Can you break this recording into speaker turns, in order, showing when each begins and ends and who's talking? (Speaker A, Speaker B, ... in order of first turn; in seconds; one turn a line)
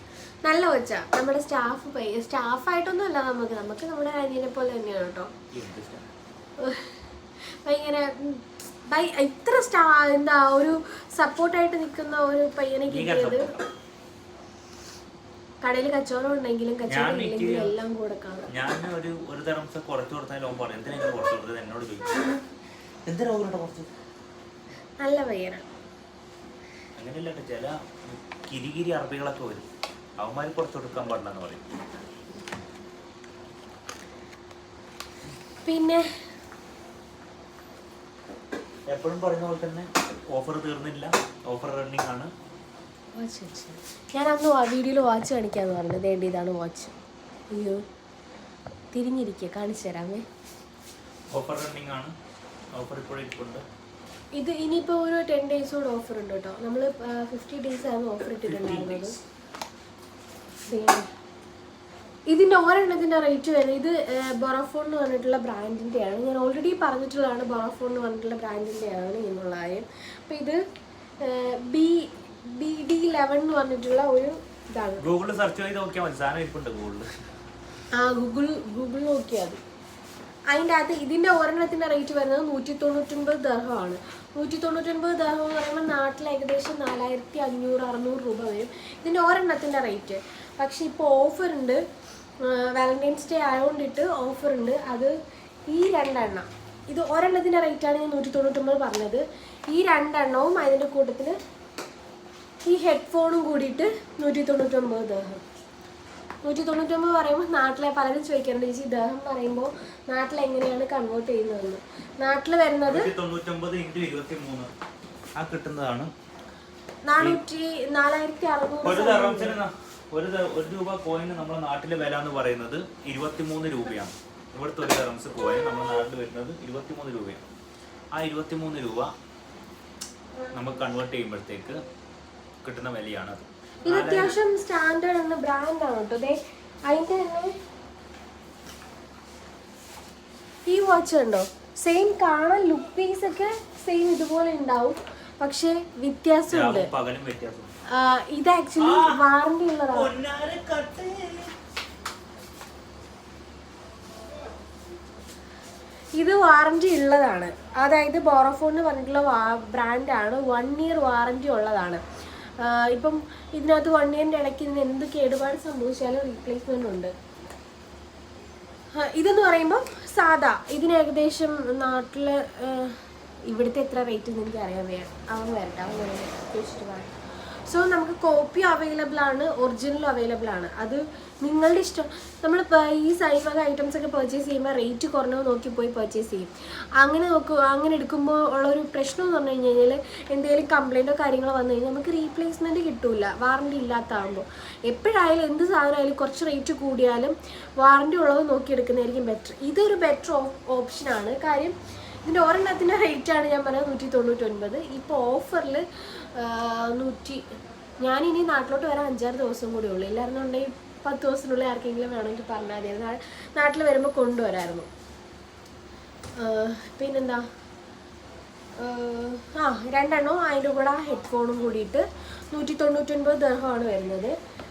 Speaker A: 0.4-5.3
Speaker B: 5.5-6.1
Speaker A: 6.6-6.9
Speaker A: 7.6-13.5
Speaker B: 12.9-13.7
Speaker A: 15.6-18.5
Speaker B: 16.9-17.8
Speaker B: 18.5-22.4
Speaker B: 23.1-23.9
Speaker A: 25.0-25.7
Speaker B: 27.0-29.7
Speaker B: 30.2-31.6
Speaker A: 35.6-36.0
Speaker B: 38.9-42.3
Speaker A: 43.1-46.9
Speaker A: 47.5-47.8
Speaker A: 48.9-50.2
Speaker B: 51.3-52.1
Speaker B: 52.8-53.6
Speaker A: 54.3-59.1
Speaker B: 58.2-59.2
Speaker A: 60.7-61.1
Speaker A: 62.3-70.6
Speaker A: 71.2-75.0
Speaker B: 75.0-77.1
Speaker A: 77.9-79.6
Speaker A: 80.5-91.8
Speaker A: 92.4-95.1
Speaker A: 95.7-101.4
Speaker A: 102.6-105.4
Speaker A: 106.4-113.1
Speaker B: 112.8-114.7
Speaker B: 115.4-116.1
Speaker A: 117.1-119.6
Speaker B: 118.8-127.4
Speaker B: 128.1-129.1
Speaker A: 130.4-130.9
Speaker B: 130.5-131.8
Speaker B: 132.6-134.4
Speaker A: 133.8-137.6
Speaker A: 140.7-146.9
Speaker B: 146.5-147.7
Speaker A: 147.9-150.1
Speaker B: 148.8-149.2
Speaker B: 149.9-151.5
Speaker A: 156.2-162.0
Speaker A: 162.6-167.1
Speaker A: 169.0-177.1
Speaker A: 177.7-207.4
Speaker A: 208.0-214.9
Speaker A: 216.4-217.4
Speaker A: 218.8-224.3